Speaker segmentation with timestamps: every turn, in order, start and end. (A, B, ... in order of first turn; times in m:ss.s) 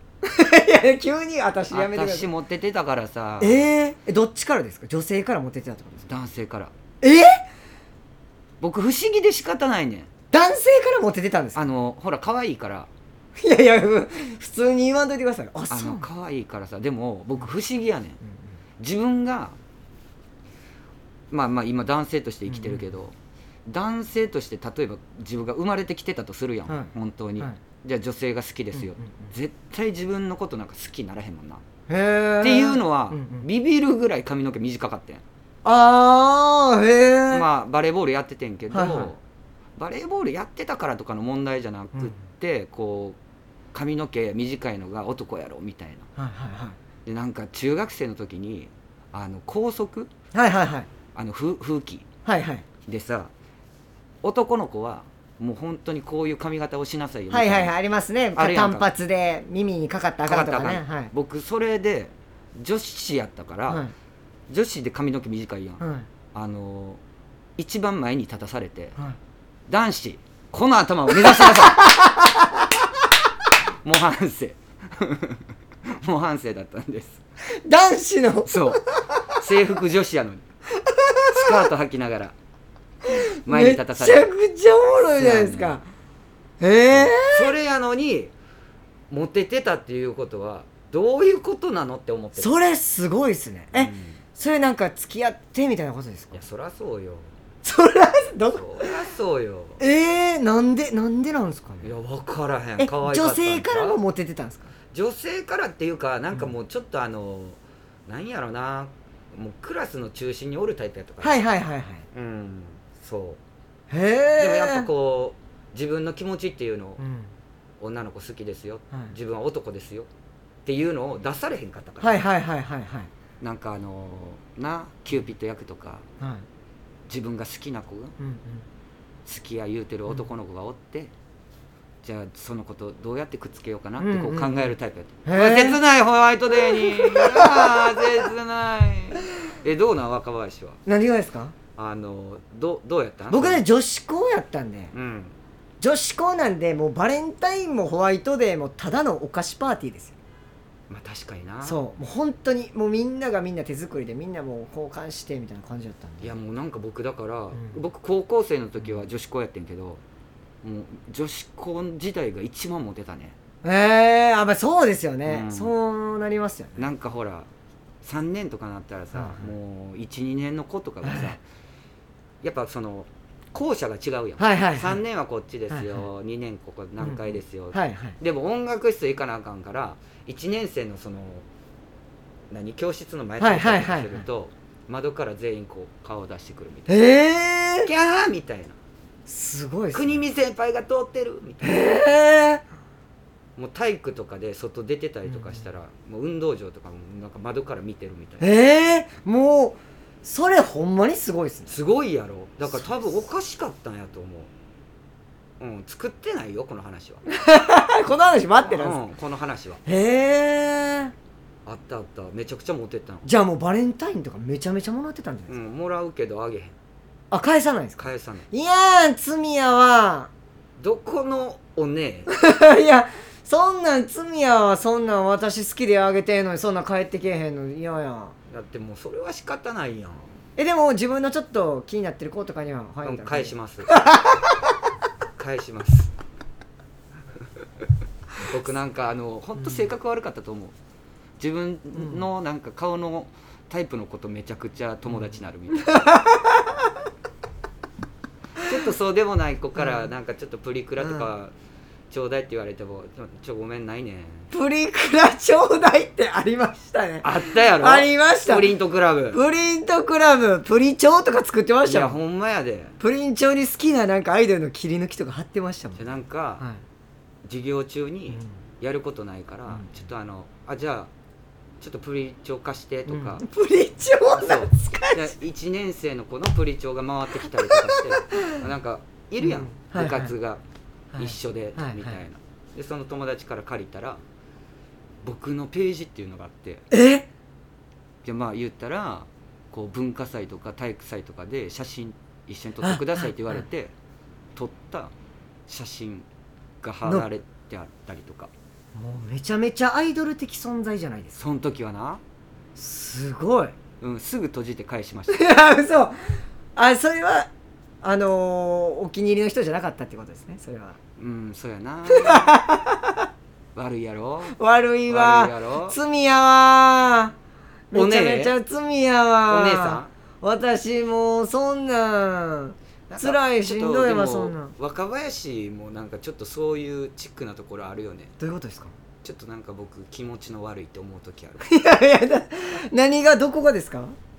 0:00.2-0:02.3 A
0:01.7-0:03.7 B
0:03.4-0:06.1 A
0:06.1-0:06.7 B
0:07.0-0:07.4 A
0:08.6-0:10.1 B
0:10.3-0:11.7 A
0:11.6-0:12.9 B
0:13.4-0:16.1 A
0:15.7-0:18.2 B
0:18.8-0:19.6 B
0:21.3-0:23.1 B
0:22.5-0:22.8 A
0:23.7-0:31.6 B
0:26.7-0:27.6 A
0:28.8-0:29.3 A
0:31.9-0:33.4 A
0:32.4-0:35.2 B
0:35.6-0:37.5 A
0:37.3-0:39.2 B
0:38.7-0:39.1 A
0:39.8-0:43.2 B
0:41.9-0:42.2 A
0:43.7-0:46.1 B
0:46.2-0:46.8 A
0:47.1-0:50.1 B
0:50.3-0:50.9 A
0:51.2-0:52.1 B
0:52.2-0:52.6 A
0:52.9-0:53.3 B
0:54.2-0:57.7 B
0:57.3-1:01.1 A
0:58.4-0:58.9 B
1:00.2-1:03.8 B
1:03.7-1:03.9 A
1:04.5-1:05.8 B
1:05.8-1:06.1 A
1:06.3-1:07.0 B
1:07.6-1:09.0 B
1:09.7-1:11.9 B
1:11.2-1:12.5 A
1:13.8-1:17.2 B
1:17.6-1:19.2 A
1:18.5-1:20.4 B
1:20.8-1:21.3 A
1:21.3-1:22.4 B
1:23.1-1:25.9 A
1:23.4-1:24.3 B
1:24.9-1:25.8 B
1:26.6-1:27.5 A
1:26.9-1:28.3 B
1:29.1-1:32.5 B
1:32.4-1:36.4 A
1:33.7-1:34.2 B
1:36.3-1:37.3 B
1:37.6-1:38.9 A
1:38.5-1:39.8 B
1:39.8-1:41.9 A
1:41.8-1:44.0 B
1:42.8-1:44.7 A
1:44.9-1:51.4 B
1:51.2-1:52.1 A
1:52.1-1:53.4 B
1:53.9-1:54.9 A
1:54.4-1:57.0 B
1:57.0-1:57.3 A
1:57.8-2:00.1 B
2:00.6-2:02.2 B
2:02.0-2:03.1 A
2:03.4-2:06.0 B
2:06.2-2:06.4 A
2:07.1-2:08.1 B
2:08.2-2:08.6 A
2:09.3-2:11.1 B
2:12.0-2:20.8 B
2:14.0-2:14.7 A
2:15.2-2:15.8 A
2:16.6-2:18.0 A
2:20.9-2:21.5 A
2:21.8-2:23.6 B
2:23.3-2:24.9 A
2:24.9-2:25.4 B
2:25.8-2:30.2 A
2:30.9-2:31.8 B
2:31.6-2:36.4 A
2:36.2-2:40.0 B
2:37.5-2:37.8 A
2:40.6-2:43.4 B
2:43.6-2:46.9 A
2:45.3-2:45.7 B
2:46.8-2:47.5 B
2:48.0-2:51.4 B
2:49.1-2:49.5 A
2:51.0-2:51.4 A
2:52.4-3:01.5 B
2:54.4-2:55.0 A
2:55.7-2:56.0 A
2:57.0-2:58.2 A
3:02.5-3:07.0 B
3:03.4-3:04.2 A
3:06.9-3:07.9 A
3:07.8-3:08.8 B
3:09.3-3:10.2 A
3:09.9-3:11.8 B
3:11.6-3:12.6 A
3:13.6-3:18.5 B
3:15.3-3:15.6 A
3:18.4-3:21.7 A
3:21.7-3:24.5 B
3:25.6-3:27.2 B
3:27.3-3:29.0 A
3:28.6-3:29.8 B
3:29.9-3:31.1 A
3:31.7-3:33.3 B
3:33.2-3:35.6 A
3:35.5-3:36.8 B
3:37.3-3:40.3 A
3:38.0-3:38.5 B
3:40.8-3:42.3 B
3:42.3-3:48.4 A
3:48.5-3:50.3 B
3:50.6-3:54.6 A
3:53.0-3:54.1 B
3:55.4-3:56.1 B
3:58.4-4:00.7 B
4:01.4-4:05.9 B
4:05.8-4:06.9 A
4:08.6-4:11.5 B
4:09.8-4:10.1 A
4:11.0-4:11.3 A
4:12.1-4:14.5 B
4:14.5-4:18.7 A
4:17.2-4:19.4 B
4:19.3-4:22.2 A
4:21.8-4:23.0 B
4:23.0-4:26.0 A
4:26.0-4:26.6 B
4:27.4-4:31.1 B
4:31.8-4:33.4 B
4:33.1-4:35.4 A
4:34.3-4:40.6 B
4:37.7-4:38.5 A
4:39.4-4:40.3 A
4:41.1-4:42.2 A
4:41.2-4:44.2 B
4:45.2-4:46.8 B
4:46.9-4:47.3 A
4:48.2-4:53.9 B
4:52.8-4:53.6 A
4:54.6-4:55.1 B
4:55.7-4:56.3 B
4:56.8-4:58.5 B
4:59.0-5:01.4 A
5:01.4-5:02.2 B
5:02.8-5:03.7 A
5:04.0-5:05.4 B
5:05.3-5:07.5 A
5:08.0-5:11.0 A
5:11.2-5:12.6 B
5:12.1-5:13.3 A
5:13.8-5:14.6 B
5:14.6-5:17.3 A
5:15.1-5:16.0 B
5:17.9-5:24.7 A
5:17.9-5:18.6 B
5:19.5-5:20.1 B
5:23.1-5:28.3 B
5:28.4-5:28.9 A
5:29.2-5:31.7 B
5:31.6-5:34.2 A